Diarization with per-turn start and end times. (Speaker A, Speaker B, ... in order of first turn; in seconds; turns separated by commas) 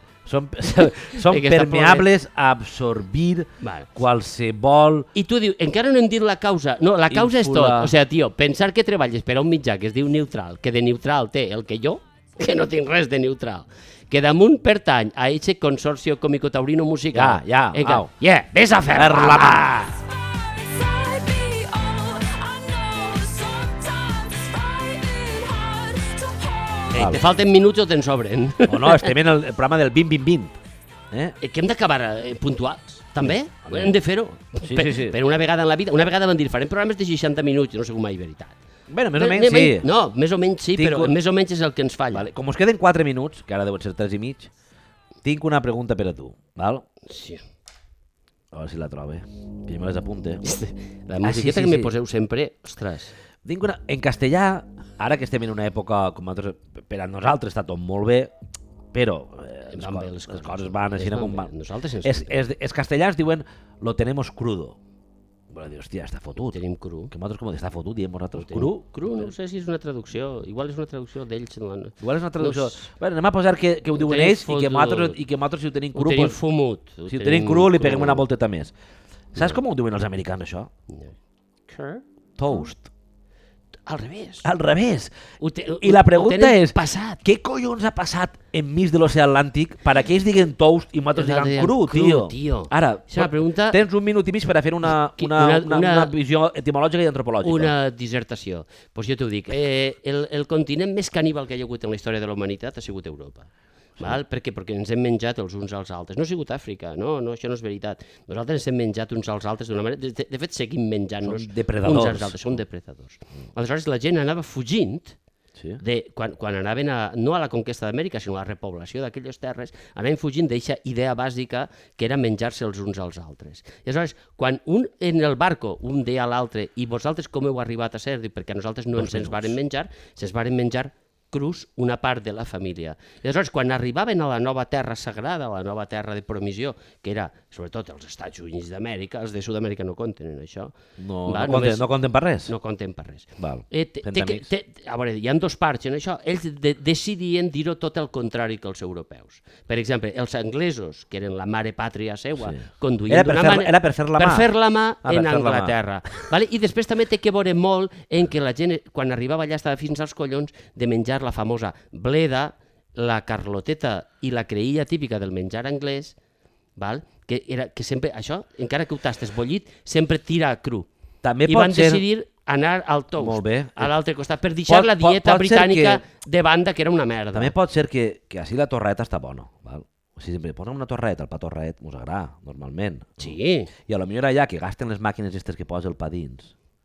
Speaker A: 0.2-5.1, Speaker B: 0.8-2.1, Speaker B: 3.6-3.9, Speaker B: 5.1-19.9, Speaker A: 7.1-7.9, Speaker A: 17.1-18.1, Speaker A: 18.9-19.9, Speaker B: 20.7-29.1, Speaker A: 26.9-27.2, Speaker A: 28.6-30.6, Speaker A: 31.1-31.4, Speaker B: 31.4-38.6, Speaker A: 33.2-34.0, Speaker A: 34.6-35.2, Speaker A: 38.9-39.9, Speaker B: 39.1-42.3, Speaker A: 40.8-41.1, Speaker A: 42.1-44.5, Speaker A: 45.2-46.9, Speaker B: 47.0-47.4, Speaker A: 48.5-50.4, Speaker B: 50.4-53.1, Speaker A: 51.2-51.9, Speaker A: 53.4-58.3, Speaker A: 58.9-61.5, Speaker B: 59.7-62.4, Speaker A: 62.0-64.8, Speaker A: 65.5-66.6, Speaker B: 66.5-67.1, Speaker A: 67.1-69.2, Speaker B: 68.3-72.8, Speaker A: 72.0-76.3, Speaker B: 73.9-75.2, Speaker B: 75.9-78.2, Speaker A: 77.1-78.7, Speaker A: 79.3-80.7, Speaker B: 79.3-79.6, Speaker B: 80.9-81.1, Speaker B: 81.7-82.7, Speaker A: 82.4-82.9, Speaker B: 83.8-84.5, Speaker A: 84.4-85.1, Speaker B: 85.4-87.2, Speaker A: 85.7-97.7, Speaker B: 91.1-93.8, Speaker B: 95.0-96.1, Speaker B: 97.4-103.5, Speaker B: 104.0-115.2, Speaker A: 111.2-112.6, Speaker A: 115.6-115.8, Speaker B: 115.8-140.7, Speaker A: 128.9-129.6, Speaker A: 141.0-142.5, Speaker B: 141.2-141.8, Speaker B: 142.4-166.1, Speaker A: 143.4-144.5, Speaker A: 152.4-154.5, Speaker A: 155.0-156.2, Speaker B: 166.8-170.9, Speaker A: 171.2-172.0, Speaker B: 171.4-177.5, Speaker A: 173.2-173.9, Speaker A: 174.7-176.0, Speaker A: 177.3-183.3, Speaker B: 183.2-183.7, Speaker A: 183.9-186.5